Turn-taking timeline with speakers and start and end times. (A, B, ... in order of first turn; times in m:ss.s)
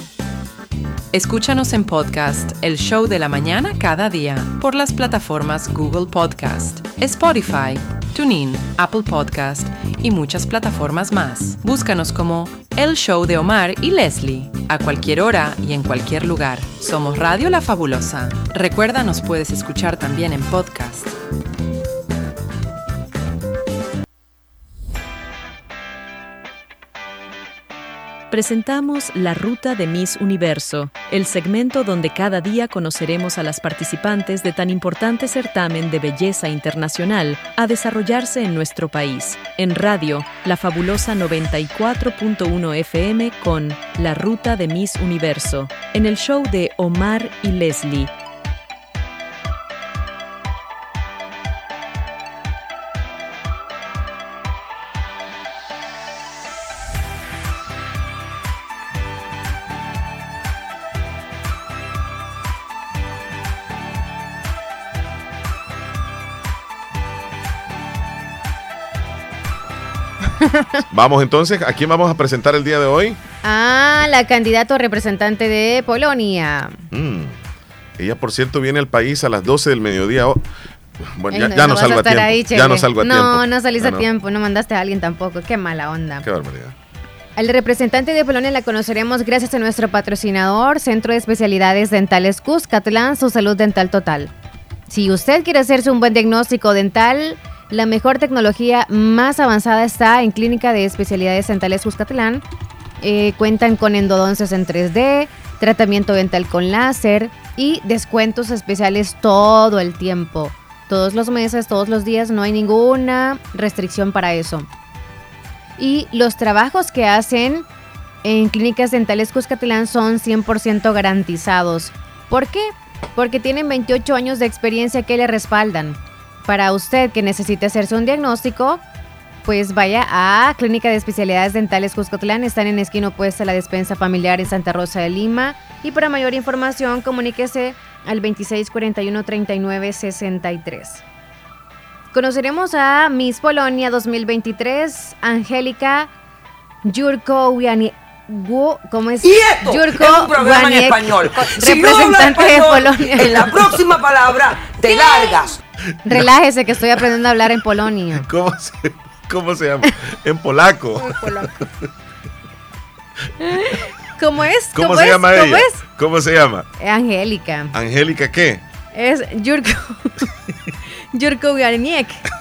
0:01.1-0:21.1 A
0:28.3-0:48.1 B
1:10.3-1:10.8 C
1:10.9-1:13.2 D
1:13.4-1:16.8 C
1:16.9-1:17.4 D
1:18.0-1:20.4 D
1:21.0-1:24.0 D
1:21.3-1:26.2 C
1:26.2-1:26.8 D
1:27.4-1:34.3 C
1:34.9-1:42.4 C
1:43.0-1:54.7 C
1:55.8-1:57.7 C
1:58.2-2:08.8 C
2:09.4-2:21.0 C
2:22.1-2:26.1 C
2:26.8-2:33.5 C
2:29.2-2:35.6 E
2:36.1-2:38.3 C
2:38.2-2:41.2 D
2:41.0-2:41.5 C
2:43.4-2:45.8 C
2:44.7-2:46.7 D
2:46.8-2:47.7 C
2:47.7-2:48.6 D
2:48.9-2:50.3 C
2:51.1-2:52.2 C